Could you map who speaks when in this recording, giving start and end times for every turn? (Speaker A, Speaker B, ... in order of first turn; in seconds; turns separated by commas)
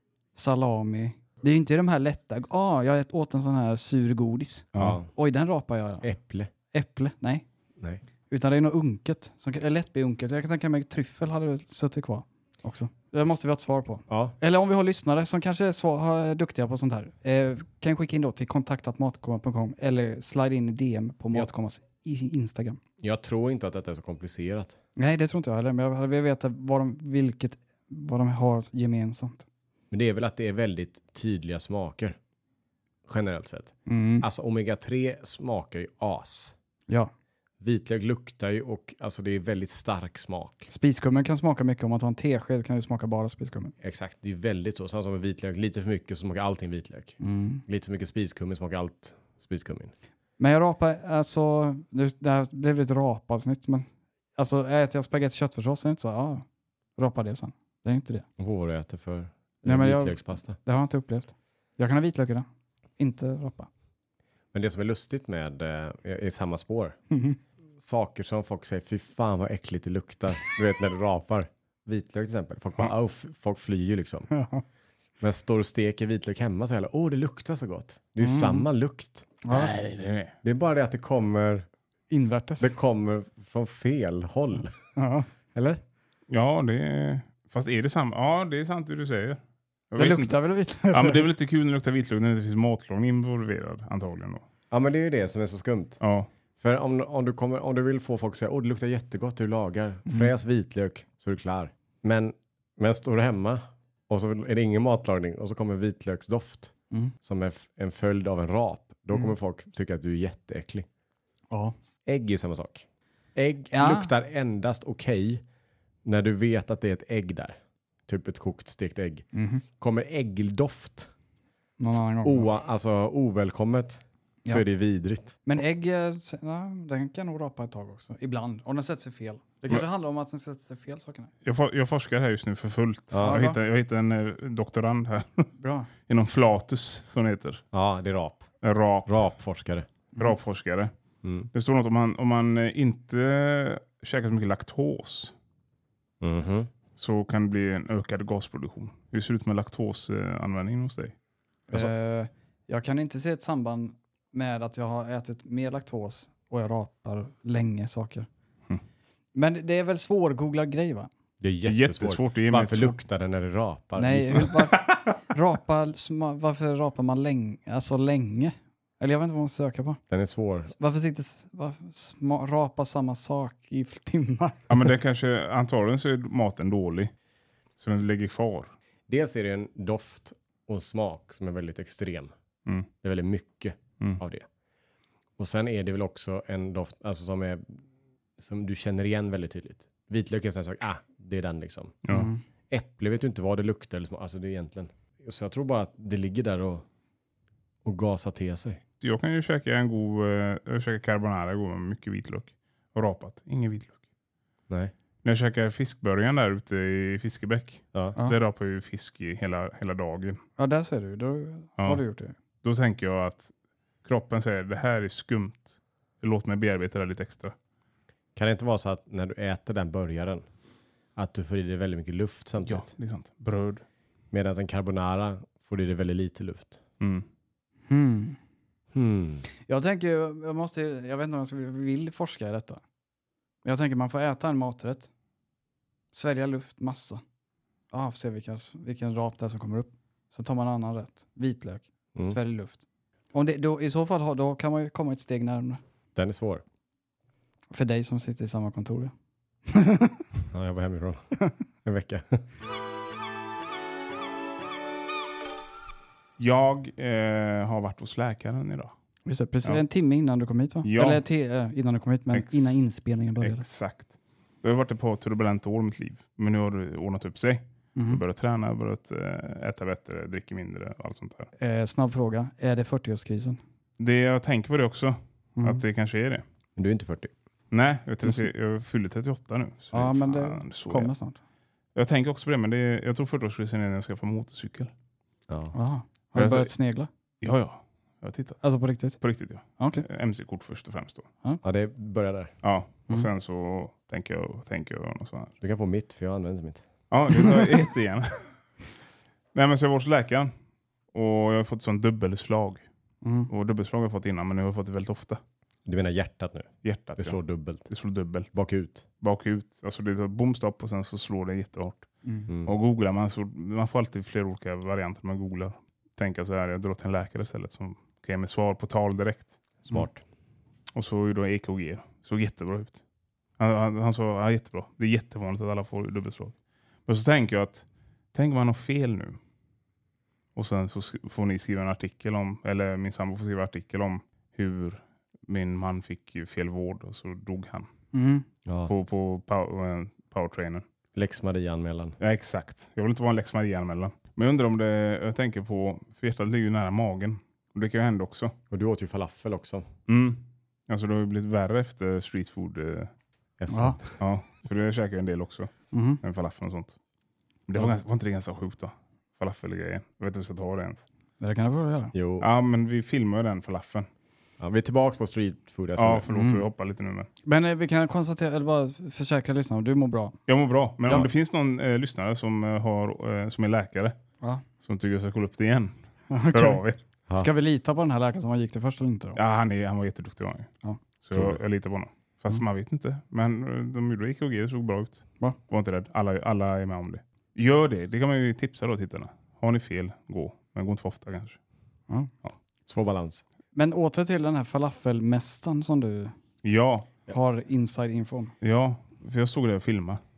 Speaker A: 0.3-6.1, Speaker B: 4.8-5.1, Speaker B: 6.0-6.5, Speaker A: 6.7-7.5, Speaker A: 8.3-22.8, Speaker B: 14.1-14.4, Speaker B: 23.0-24.8, Speaker A: 25.0-29.4, Speaker B: 29.9-32.2, Speaker B: 33.1-36.5, Speaker A: 33.9-34.2, Speaker B: 37.6-40.7, Speaker A: 40.7-43.8, Speaker B: 43.8-49.9, Speaker A: 47.2-47.6, Speaker A: 50.4-56.5, Speaker A: 57.0-58.3, Speaker B: 58.4-60.6, Speaker A: 59.6-62.5, Speaker A: 63.0-63.7, Speaker B: 64.5-67.0, Speaker A: 67.1-67.4, Speaker B: 67.8-74.3, Speaker A: 74.3-74.6, Speaker B: 75.2-79.3, Speaker A: 78.2-78.7, Speaker A: 79.5-79.7, Speaker C: 79.5-80.3, Speaker B: 80.4-81.7, Speaker A: 82.1-82.7, Speaker B: 82.6-84.8, Speaker A: 85.0-85.3, Speaker B: 85.5-85.8, Speaker C: 86.3-89.4, Speaker C: 89.9-90.4, Speaker A: 90.0-91.2, Speaker C: 90.9-94.4, Speaker B: 94.7-96.0, Speaker C: 96.0-96.3, Speaker B: 96.6-110.9, Speaker A: 100.1-100.3, Speaker B: 112.0-115.4, Speaker A: 113.7-114.1, Speaker B: 116.0-119.3, Speaker A: 119.3-119.6, Speaker B: 119.8-121.1, Speaker A: 121.8-122.5, Speaker B: 122.2-125.4, Speaker A: 125.5-131.3, Speaker C: 131.4-135.5, Speaker B: 133.1-133.4, Speaker A: 133.2-133.6, Speaker A: 135.6-135.9, Speaker C: 136.1-137.6, Speaker B: 137.7-138.5, Speaker C: 138.6-139.2, Speaker B: 139.1-139.9, Speaker C: 140.2-140.9, Speaker B: 141.2-141.5, Speaker C: 141.5-145.3, Speaker B: 146.2-146.7, Speaker C: 147.0-151.1, Speaker A: 151.7-158.3, Speaker A: 159.3-161.1, Speaker B: 161.4-164.6, Speaker C: 161.7-162.9, Speaker A: 164.0-170.0, Speaker B: 170.1-170.7, Speaker A: 170.7-174.7, Speaker C: 174.7-177.1, Speaker C: 177.8-178.7, Speaker B: 179.1-182.3, Speaker B: 183.0-184.5, Speaker B: 185.4-187.8, Speaker B: 188.4-192.0, Speaker C: 192.1-192.3, Speaker A: 192.1-192.4, Speaker B: 192.7-196.9, Speaker B: 197.8-198.8, Speaker C: 199.0-204.0, Speaker C: 205.2-210.4, Speaker A: 210.6-212.4, Speaker C: 212.6-213.5, Speaker C: 214.0-217.6, Speaker B: 218.3-220.4, Speaker B: 221.2-222.9, Speaker C: 222.7-223.8, Speaker B: 224.3-226.8, Speaker C: 227.0-227.3, Speaker A: 227.9-228.4, Speaker B: 228.9-229.4, Speaker A: 229.7-232.8, Speaker A: 233.6-235.1, Speaker A: 236.1-237.2, Speaker A: 237.9-242.8, Speaker A: 243.3-245.8, Speaker B: 246.2-246.6, Speaker A: 247.7-249.1, Speaker A: 249.7-250.2, Speaker B: 250.5-252.4, Speaker C: 256.4-258.9, Speaker A: 259.3-263.6, Speaker C: 260.8-261.2, Speaker C: 262.3-262.9, Speaker C: 263.4-271.5, Speaker A: 268.0-268.2, Speaker A: 271.6-273.6, Speaker C: 274.0-276.4, Speaker B: 276.8-277.3, Speaker C: 277.7-281.1, Speaker A: 279.9-281.4, Speaker C: 281.9-284.9, Speaker B: 285.5-285.8, Speaker A: 285.7-287.1, Speaker C: 286.4-286.7, Speaker C: 287.4-288.6, Speaker A: 288.6-289.2, Speaker C: 289.2-291.3, Speaker A: 289.8-290.1, Speaker B: 291.6-292.6, Speaker C: 292.6-295.5, Speaker B: 295.6-296.8, Speaker C: 297.1-298.5, Speaker C: 299.6-300.5, Speaker C: 301.1-302.9, Speaker A: 303.2-303.5, Speaker C: 303.5-305.4, Speaker B: 305.9-307.9, Speaker C: 306.8-308.5, Speaker B: 308.5-309.0, Speaker C: 309.2-312.1, Speaker B: 312.5-312.7, Speaker C: 312.6-319.6, Speaker B: 319.9-320.2, Speaker C: 320.9-323.0, Speaker C: 323.6-329.4, Speaker C: 330.6-337.9, Speaker A: 338.1-338.4, Speaker B: 338.7-338.9, Speaker C: 338.9-340.8, Speaker B: 341.2-342.2, Speaker C: 342.2-348.6, Speaker B: 348.7-349.9, Speaker C: 350.1-353.1, Speaker B: 353.6-354.2, Speaker A: 353.7-354.0, Speaker C: 354.2-357.0, Speaker A: 355.9-356.2, Speaker C: 357.7-361.1, Speaker A: 361.4-362.1, Speaker B: 362.1-362.5, Speaker C: 362.4-364.1, Speaker B: 364.6-366.3, Speaker C: 366.0-367.3, Speaker A: 366.3-366.7, Speaker A: 367.4-370.4, Speaker C: 370.5-374.2, Speaker C: 374.8-376.0, Speaker A: 376.3-376.8, Speaker C: 376.5-377.0, Speaker A: 377.4-379.4, Speaker C: 379.4-380.7, Speaker C: 381.2-391.6, Speaker B: 381.3-381.6, Speaker B: 392.9-393.4, Speaker A: 393.8-396.4, Speaker C: 396.6-397.2, Speaker A: 397.3-398.6, Speaker C: 398.6-400.2